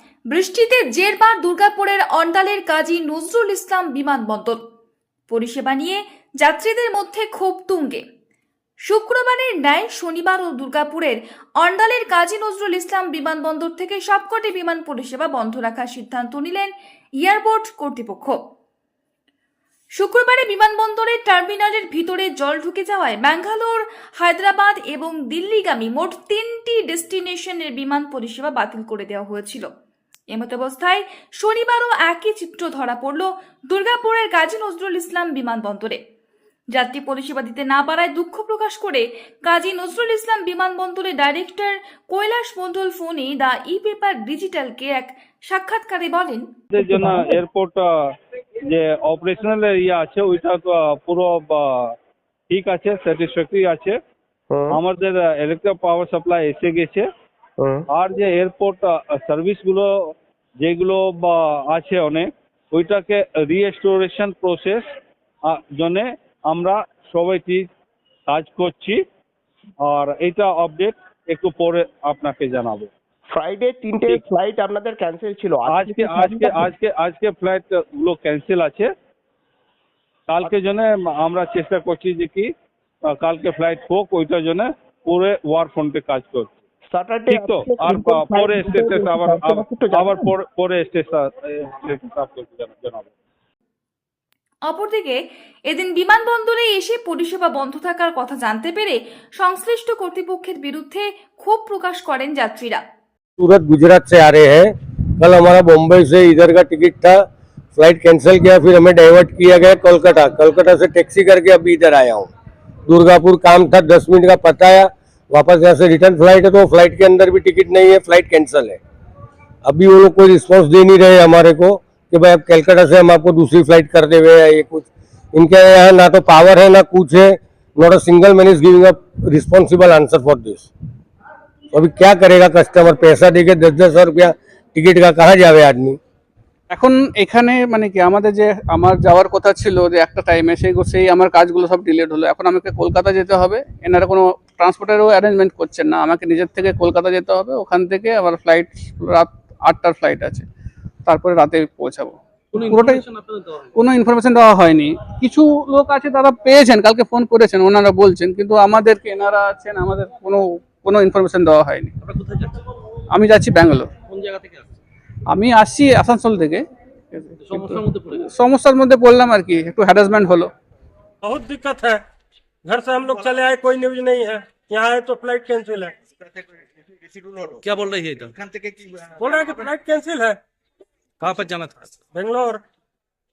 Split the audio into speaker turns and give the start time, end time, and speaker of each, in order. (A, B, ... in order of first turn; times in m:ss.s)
0:00.3-0:04.6 A
0:05.3-0:08.0 A
0:08.9-0:18.4 A
0:20.0-0:29.7 A
0:30.3-0:36.0 A
0:36.7-0:46.5 A
0:46.7-0:47.8 B
0:46.8-0:47.3 C
0:48.6-0:51.6 B
0:52.5-0:53.9 B
0:54.5-0:54.8 C
0:54.7-0:57.0 B
0:57.6-0:57.8 C
0:57.9-0:59.9 B
1:00.6-1:04.8 B
1:05.4-1:07.7 B
1:08.3-1:09.0 B
1:09.8-1:12.9 B
1:13.3-1:16.7 C
1:15.6-1:18.9 B
1:20.3-1:22.5 B
1:23.1-1:26.5 B
1:26.9-1:30.3 C
1:27.3-1:33.1 B
1:34.7-1:42.8 A
1:43.4-1:47.2 D
1:47.7-1:52.3 D
1:52.9-1:58.8 D
1:59.6-2:10.7 D
2:11.7-2:16.0 D
2:16.7-2:30.5 E
2:31.0-2:33.0 E
2:32.5-2:33.7 F
2:33.8-2:41.9 E
2:42.0-2:42.6 F
2:43.1-2:43.9 E
2:44.1-2:44.7 F
2:45.3-2:50.5 E
2:47.4-2:48.2 F
2:51.2-2:52.0 G
2:52.6-2:56.0 G
2:57.6-2:58.3 F
2:59.1-3:00.4 G
3:01.2-3:01.9 F
3:02.1-3:02.6 G